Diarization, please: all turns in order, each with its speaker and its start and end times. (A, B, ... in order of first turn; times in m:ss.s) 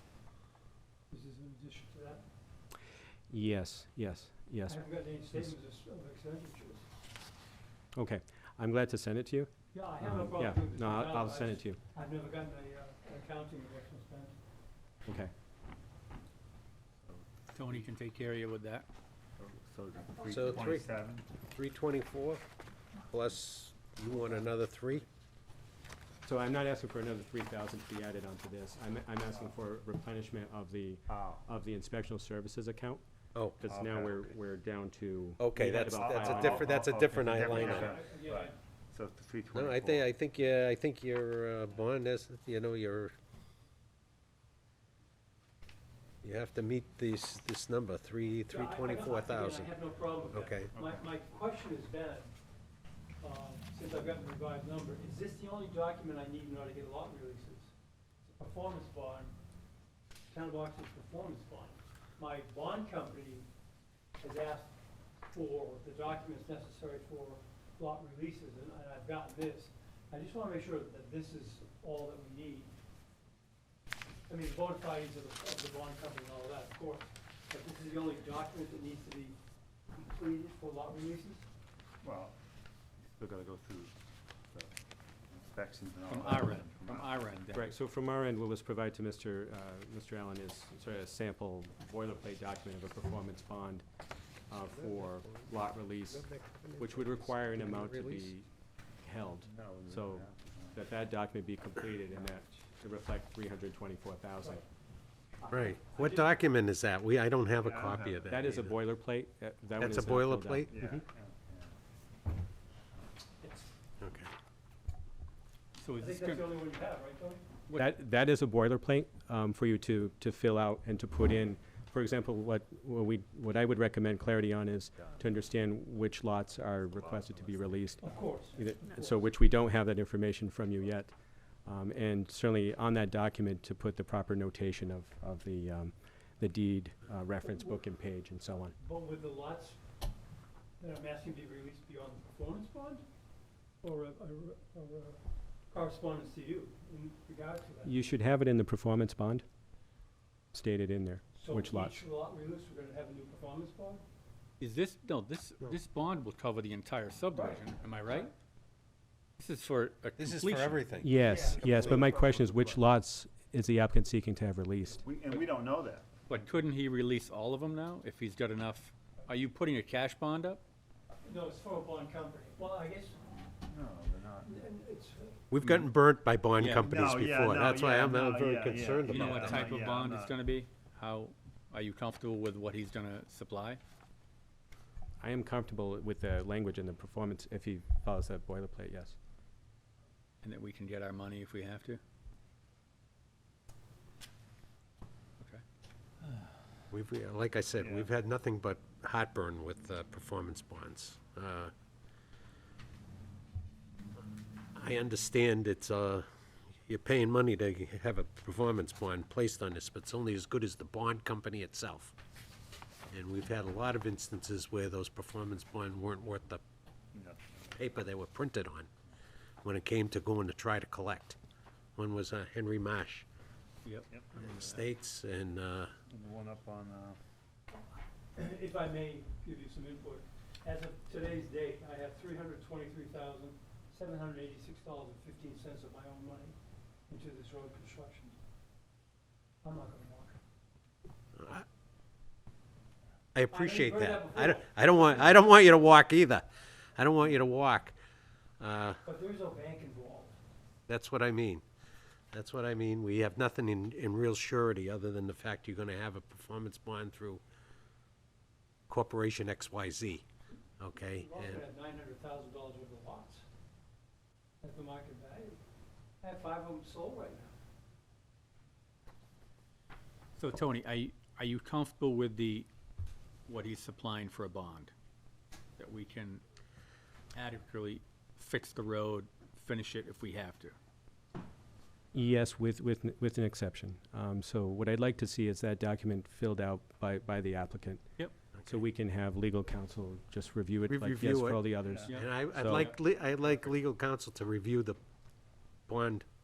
0:01.1-0:02.2 A
0:03.3-0:04.8 B
0:04.7-0:06.8 A
0:08.0-0:11.8 B
0:09.7-0:14.4 A
0:15.1-0:15.3 B
0:17.5-0:18.9 C
0:19.4-0:21.3 D
0:20.2-0:20.9 E
0:21.5-0:22.4 E
0:23.1-0:25.1 E
0:26.2-0:33.0 B
0:31.1-0:31.4 D
0:33.4-0:33.6 E
0:33.6-0:36.8 B
0:33.6-0:34.3 D
0:35.4-0:38.0 E
0:35.8-0:40.2 D
0:37.4-0:38.6 A
0:39.5-0:43.1 E
0:46.2-0:49.7 E
0:48.5-0:52.3 A
0:50.3-0:50.7 E
0:50.7-0:51.0 D
0:53.2-0:57.7 A
0:58.3-0:59.4 A
1:00.3-1:03.5 A
1:04.2-1:04.7 A
1:05.3-1:12.7 A
1:14.3-1:19.4 A
1:19.9-1:21.4 A
1:22.0-1:22.4 D
1:23.0-1:24.0 D
1:24.5-1:24.8 D
1:25.3-1:27.1 D
1:26.1-1:27.7 C
1:27.5-1:33.8 B
1:34.5-1:38.5 B
1:34.7-1:35.4 E
1:36.1-1:38.3 E
1:39.0-1:44.6 B
1:39.4-1:40.8 D
1:45.4-1:46.4 A
1:45.5-1:48.8 E
1:47.6-1:48.3 D
1:48.3-1:51.0 B
1:49.8-1:50.7 E
1:50.7-1:51.8 D
1:53.4-1:53.7 A
1:54.0-1:54.3 E
1:55.8-1:56.5 C
1:56.0-1:57.5 A
1:57.8-2:11.2 B
2:07.0-2:07.9 D
2:08.0-2:09.2 A
2:11.7-2:18.8 B
2:18.8-2:19.8 A
2:20.8-2:23.0 A
2:23.8-2:28.0 A
2:27.8-2:29.4 B
2:30.5-2:32.0 B
2:31.4-2:34.0 A
2:34.6-2:38.3 C
2:37.3-2:38.3 A
2:39.4-2:40.9 C
2:40.2-2:42.0 E
2:41.0-2:45.0 B
2:41.2-2:42.2 A
2:42.3-2:42.6 D
2:45.0-2:46.3 D
2:46.3-2:50.6 C
2:51.2-2:53.2 A
2:53.6-2:54.6 D
2:54.4-2:55.4 A
2:55.5-2:59.7 E
2:56.6-2:57.2 C
2:56.8-3:00.4 D
2:59.0-3:03.8 C
3:05.2-3:09.2 B
3:10.4-3:12.0 C
3:16.9-3:21.7 E
3:17.8-3:18.1 D
3:24.8-3:26.2 E
3:26.9-3:32.1 E
3:33.1-3:36.6 E
3:37.1-3:37.7 D
3:37.8-3:38.9 E
3:39.6-3:41.4 E
3:42.0-3:43.3 E
3:44.1-3:44.8 D
3:44.4-3:45.9 E
3:46.1-3:47.2 D
3:48.4-3:56.6 A
3:57.1-3:58.4 A
3:59.6-4:00.4 A
4:01.4-4:01.6 E
4:03.3-4:08.0 E
4:03.5-4:05.7 A
4:08.6-4:09.0 E
4:09.0-4:10.4 A
4:10.9-4:11.6 E
4:12.3-4:17.4 E
4:18.9-4:20.2 E
4:20.8-4:21.6 E
4:21.0-4:23.4 A
4:24.6-4:25.6 A
4:26.2-4:27.6 A
4:30.4-4:32.7 C
4:33.5-4:34.9 C
4:35.8-4:36.4 C
4:37.4-4:40.8 C
4:42.1-4:48.0 B
4:48.6-4:52.9 B
4:50.9-4:55.0 E
4:51.9-4:52.1 D
4:52.1-4:53.0 C
4:55.9-4:56.3 E